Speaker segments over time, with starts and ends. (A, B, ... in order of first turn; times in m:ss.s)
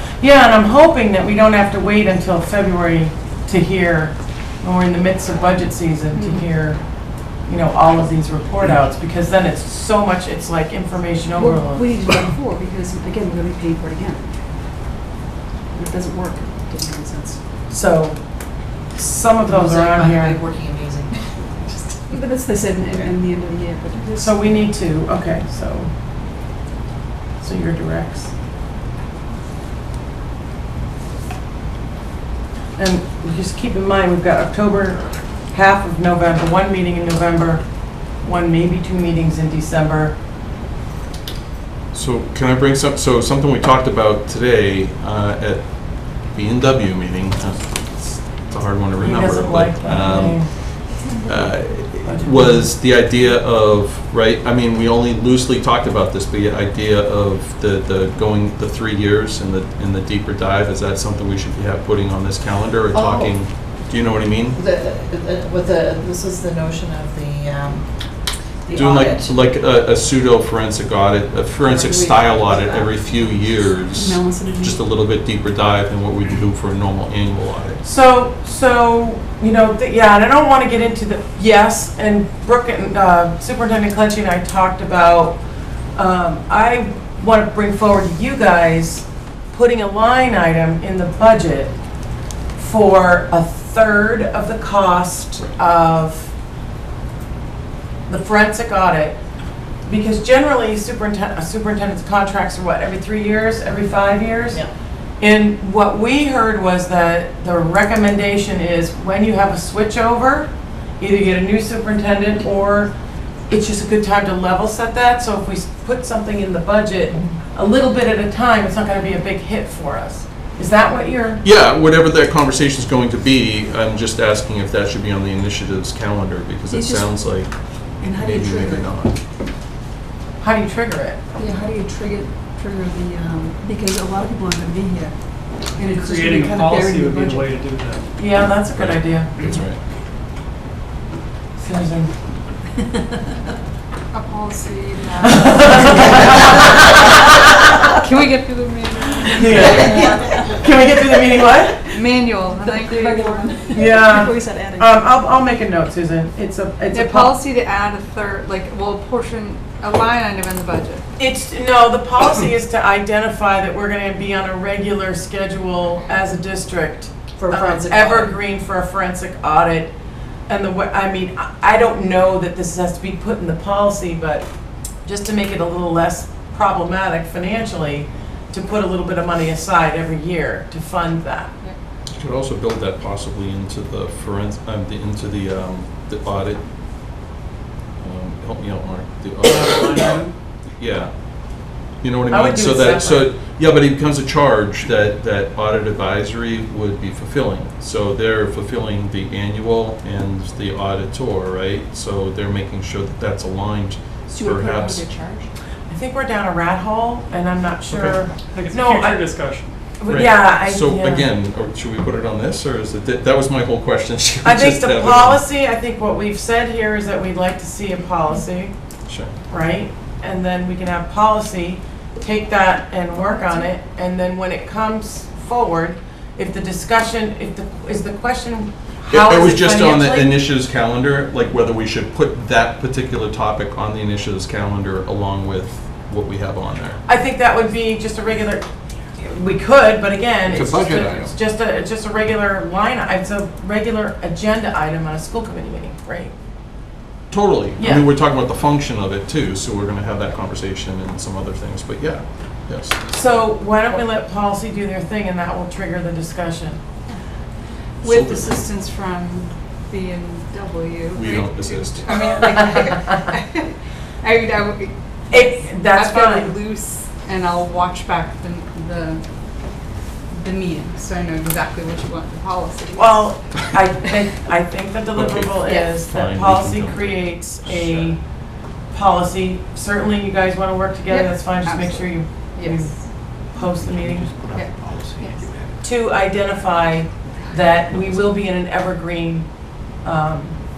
0:00.2-0:06.8 A
0:06.1-0:06.5 B
0:07.4-0:11.9 A
0:11.4-0:14.4 B
0:15.7-0:17.4 B
0:17.7-0:20.4 A
0:19.5-0:21.6 C
0:22.1-0:24.7 B
0:24.2-0:25.9 A
0:27.4-0:28.3 A
0:32.8-0:40.2 A
0:41.9-1:04.6 D
0:49.0-0:50.5 A
0:51.1-0:51.5 B
0:52.0-0:52.7 A
1:02.9-1:03.4 C
1:04.6-1:07.9 C
1:08.6-1:09.3 C
1:08.7-1:17.8 D
1:11.6-1:12.9 C
1:13.9-1:14.9 B
1:17.8-1:25.4 A
1:26.0-1:31.8 A
1:32.6-1:36.3 A
1:38.1-1:39.2 A
1:39.9-1:44.6 A
1:45.2-1:52.9 A
1:53.5-2:01.4 A
2:01.4-2:09.2 D
2:06.7-2:07.4 B
2:07.9-2:09.0 B
2:10.4-2:11.2 A
2:11.4-2:17.6 B
2:15.8-2:18.1 E
2:18.2-2:19.3 A
2:18.7-2:19.8 D
2:21.6-2:22.1 A
2:24.1-2:26.0 F
2:25.3-2:26.7 A
2:27.9-2:30.2 F
2:29.3-2:31.8 A
2:29.9-2:30.6 B
2:31.9-2:33.5 F
2:32.5-2:35.0 B
2:33.7-2:37.4 A
2:36.9-2:41.0 F
2:41.2-2:49.9 A
2:47.4-2:48.4 C
2:50.5-2:54.5 A
2:55.0-3:01.5 A
3:02.1-3:06.6 D
3:08.0-3:25.1 D
3:09.4-3:10.3 E
3:12.3-3:13.3 A
3:24.3-3:25.5 B
3:25.9-3:29.3 A
3:27.9-3:29.7 E
3:30.0-3:31.3 A
3:30.1-3:35.4 D
3:34.4-3:38.7 A
3:39.5-3:50.4 A
3:49.1-3:57.0 D
3:57.1-3:58.6 A
3:59.2-4:06.4 A
4:00.5-4:01.3 D
4:07.3-4:13.0 D
4:07.8-4:08.1 A
4:13.1-4:16.8 A
4:18.0-4:29.2 F
4:18.0-4:18.6 D
4:21.1-4:22.5 D
4:25.3-4:26.5 A
4:30.3-4:33.5 F
4:33.0-4:38.2 A
4:35.2-4:38.1 D
4:38.9-4:44.3 A
4:41.1-4:43.0 F
4:43.6-4:45.8 G
4:44.5-4:45.5 F
4:45.8-4:49.5 A
4:47.5-4:48.4 G
4:50.0-4:50.6 A